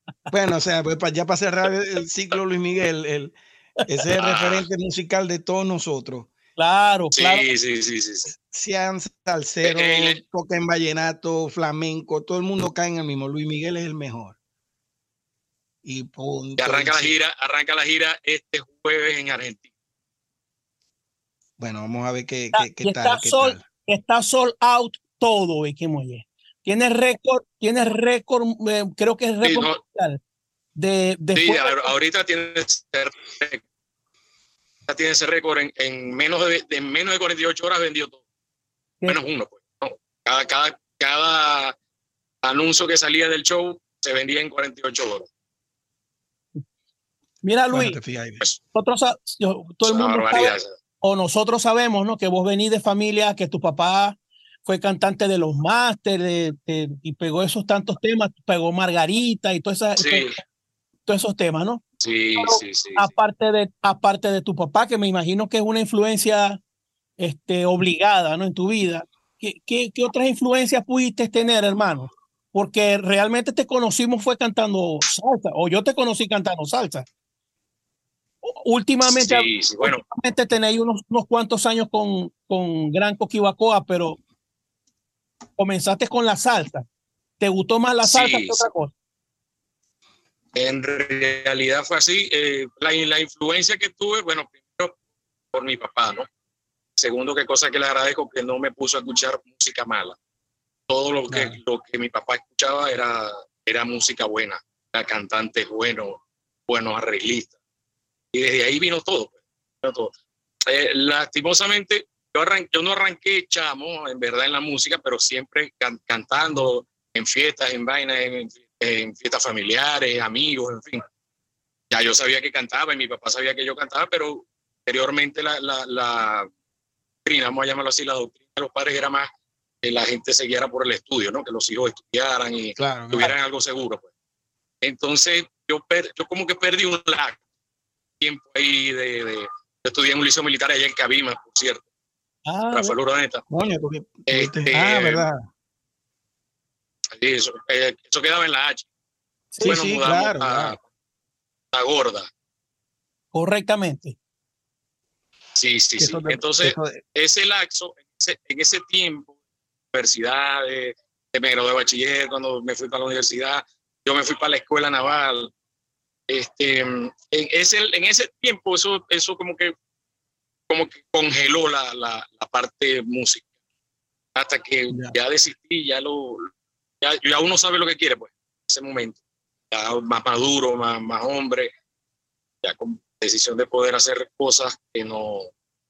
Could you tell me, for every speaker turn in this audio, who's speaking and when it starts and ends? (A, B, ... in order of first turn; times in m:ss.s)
0:00.3-0:03.4 A
0:03.9-0:06.3 A
0:04.2-0:04.7 B
0:06.6-0:07.4 C
0:07.2-0:08.3 B
0:08.4-0:14.4 A
0:09.6-0:10.2 B
0:15.8-0:17.2 A
0:16.6-0:19.7 B
0:21.6-0:23.6 A
0:22.5-0:30.2 C
0:29.4-0:29.8 B
0:30.8-0:31.9 C
0:31.3-0:33.6 B
0:34.9-0:38.2 B
0:39.1-0:41.7 B
0:42.4-0:45.3 B
0:47.4-0:48.0 C
0:47.7-0:48.4 A
0:48.7-1:00.3 C
0:49.8-0:50.7 B
1:00.0-1:00.4 B
1:01.0-1:01.8 C
1:02.0-1:03.1 B
1:02.4-1:06.6 C
1:07.2-1:17.1 C
1:18.4-1:24.2 C
1:19.0-1:20.0 B
1:25.6-1:26.8 C
1:27.4-1:28.9 C
1:28.0-1:28.6 B
1:30.5-1:35.0 B
1:35.5-1:36.3 B
1:37.0-1:40.2 B
1:40.9-1:47.5 B
1:41.3-1:41.6 A
1:48.3-2:01.0 B
2:01.9-2:06.5 B
2:07.2-2:09.3 B
2:09.8-2:14.1 B
2:12.8-2:13.3 A
2:14.8-2:17.4 B
2:18.2-2:21.8 B
2:22.4-2:22.9 C
2:22.7-2:23.4 B
2:23.5-2:25.4 A
2:24.3-2:25.2 B
2:27.1-2:28.9 B
2:29.5-2:29.8 C
2:29.6-2:30.8 A
2:29.6-2:30.8 B
2:31.7-2:32.3 B
2:33.3-2:34.2 C
2:35.6-2:39.3 B
2:36.0-2:37.0 A
2:39.9-2:45.5 B
2:46.3-2:49.7 B
2:50.7-2:53.4 B
2:54.3-2:56.5 B
2:57.0-2:59.2 B
2:59.7-3:01.7 B
3:02.6-3:05.5 B